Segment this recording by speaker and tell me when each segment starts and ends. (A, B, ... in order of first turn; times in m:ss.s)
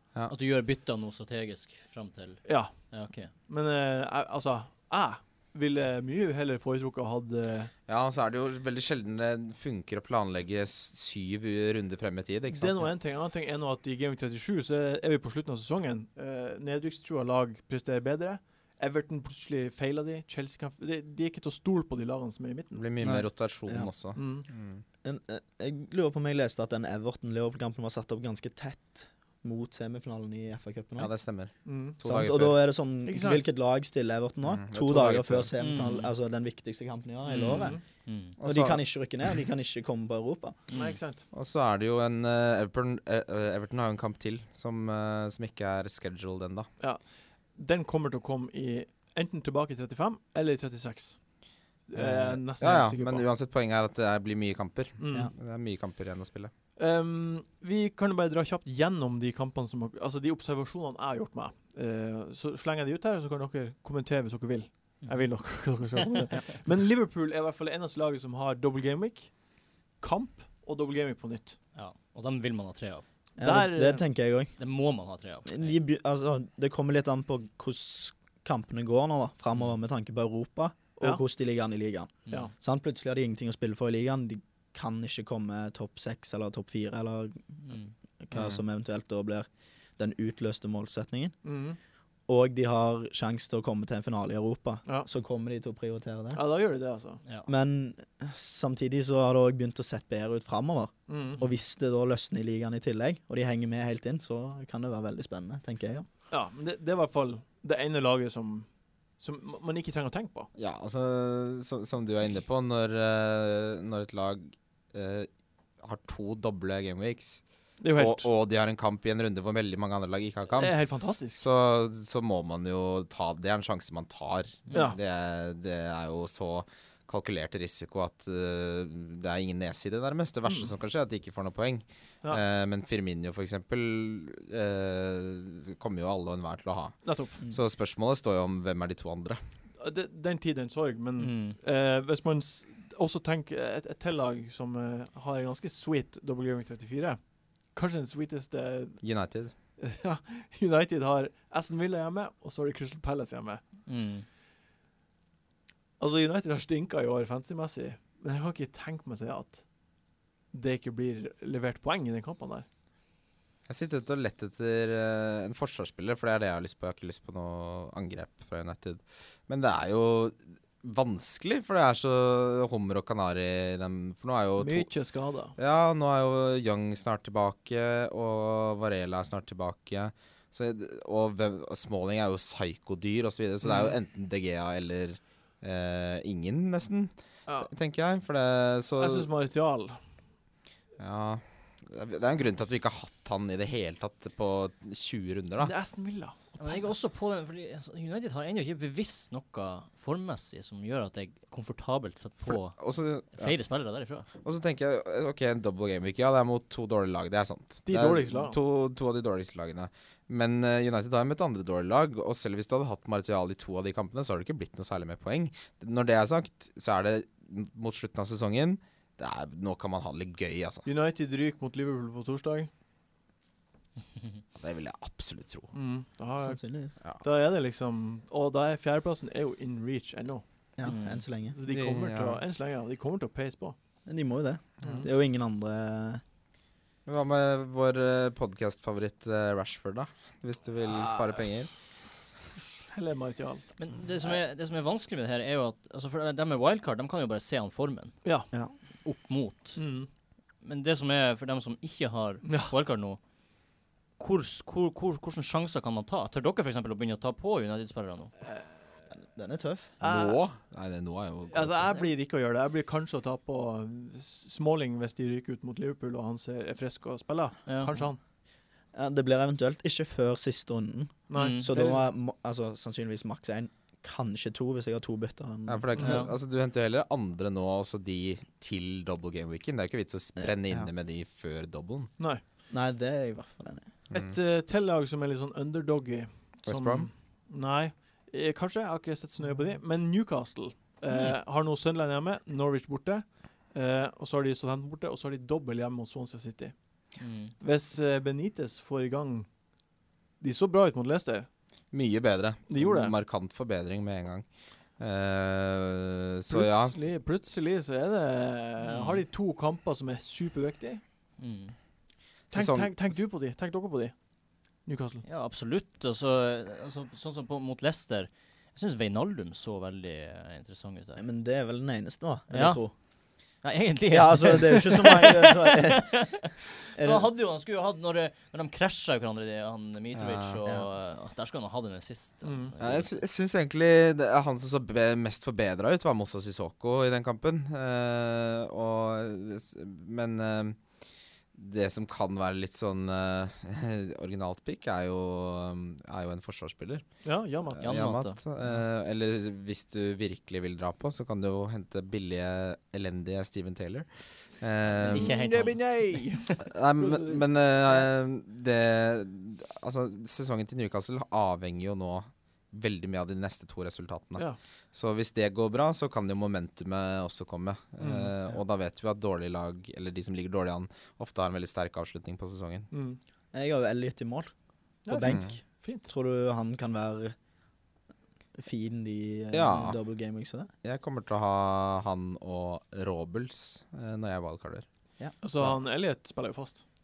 0:00.3-0:03.3 A
0:02.4-0:07.7 B
0:07.9-0:12.9 C
0:12.5-0:22.8 B
0:22.7-0:24.8 C
0:23.0-0:23.3 A
0:24.1-0:24.5 B
0:25.0-0:31.1 D
0:31.0-0:32.6 C
0:31.6-0:32.0 B
0:32.0-0:37.8 D
0:33.0-0:33.5 B
0:34.4-0:35.5 C
0:35.6-0:36.1 A
0:37.2-0:38.4 A
0:37.5-0:37.8 B
0:38.4-0:38.8 C
0:38.4-0:40.6 D
0:40.7-0:41.2 B
0:41.3-0:46.7 C
0:46.8-0:53.3 B
0:51.9-0:56.5 C
0:55.0-0:55.3 B
0:56.8-1:09.3 B
1:05.0-1:05.9 A
1:10.0-1:11.6 B
1:11.7-1:13.0 A
1:13.4-1:14.6 D
1:13.4-1:14.0 B
1:14.6-1:15.7 A
1:15.4-1:31.4 D
1:31.4-1:31.8 B
1:32.3-1:36.4 D
1:36.3-1:37.2 B
1:37.4-1:46.0 D
1:41.1-1:41.4 B
1:46.3-1:50.5 B
1:50.6-1:55.3 C
1:55.8-1:57.4 C
1:57.8-1:58.3 B
1:57.9-2:19.4 C
2:00.6-2:01.4 B
2:04.7-2:05.0 B
2:10.4-2:10.7 B
2:17.0-2:17.4 B
2:19.8-2:29.0 B
2:21.2-2:21.6 A
2:29.0-2:29.5 C
2:29.8-2:33.6 B
2:33.8-2:34.2 A
2:36.0-2:39.6 B
2:40.5-2:42.6 B
2:43.7-2:54.9 C
2:54.6-2:55.5 B
2:55.6-3:09.3 C
3:03.6-3:03.9 B
3:09.0-3:10.0 B
3:11.0-3:15.7 C
3:15.6-3:17.0 B
3:16.6-3:22.8 A
3:22.4-3:23.5 C
3:23.3-3:24.2 A
3:24.4-3:40.9 C
3:27.8-3:28.6 B
3:40.8-3:42.7 B
3:44.6-3:45.7 C
3:45.7-3:50.4 B
3:46.4-3:46.9 D
3:50.8-3:51.6 D
3:50.8-3:51.2 A
3:51.5-3:53.8 B
3:51.6-3:52.4 C
3:54.0-3:56.2 D
3:54.8-3:55.1 B
3:57.0-4:01.7 C
4:00.9-4:01.4 B
4:02.9-4:03.7 B
4:03.8-4:08.2 A
4:08.2-4:08.5 B
4:09.0-4:09.8 A
4:09.7-4:10.1 B
4:10.6-4:13.2 A
4:12.4-4:12.7 B
4:14.2-4:18.3 A
4:19.3-4:19.9 D
4:20.0-4:20.4 B
4:20.0-4:21.9 C
4:21.5-4:28.2 B
4:27.7-4:27.9 A
4:28.9-4:36.2 D
4:31.3-4:32.0 B
4:31.4-4:31.7 A
4:35.7-4:42.1 C
4:36.0-4:36.2 B
4:36.0-4:36.3 A
4:40.4-4:40.9 D
4:42.7-4:43.9 D
4:44.1-4:44.4 C
4:44.1-4:56.8 B
4:46.6-4:47.1 C
4:51.1-4:51.4 A
4:57.2-4:57.5 A
4:57.6-4:59.5 B
5:00.4-5:01.5 B
5:01.9-5:07.0 C
5:02.7-5:03.1 B
5:06.5-5:11.0 B
5:08.8-5:09.2 A
5:11.4-5:11.8 A
5:12.5-5:13.2 C
5:12.5-5:14.2 B
5:14.8-5:15.2 B
5:15.2-5:21.2 A
5:21.2-5:22.9 D
5:22.5-5:22.8 A
5:23.6-5:33.2 A
5:24.1-5:27.3 D
5:30.1-5:30.6 C
5:32.4-5:32.7 B
5:32.8-5:40.8 C
5:41.5-5:47.2 C
5:47.2-5:47.8 B
5:47.8-5:55.3 C
5:47.8-5:48.4 A
5:55.0-5:56.5 A
5:55.1-5:57.4 B
5:56.7-6:12.9 C
6:08.0-6:08.3 B
6:12.9-6:13.2 B
6:13.5-6:14.5 D
6:15.0-6:17.4 D
6:15.0-6:16.1 B
6:15.2-6:15.5 C
6:18.6-6:20.7 D
6:19.5-6:20.0 C
6:20.8-6:24.8 C
6:25.4-6:26.8 B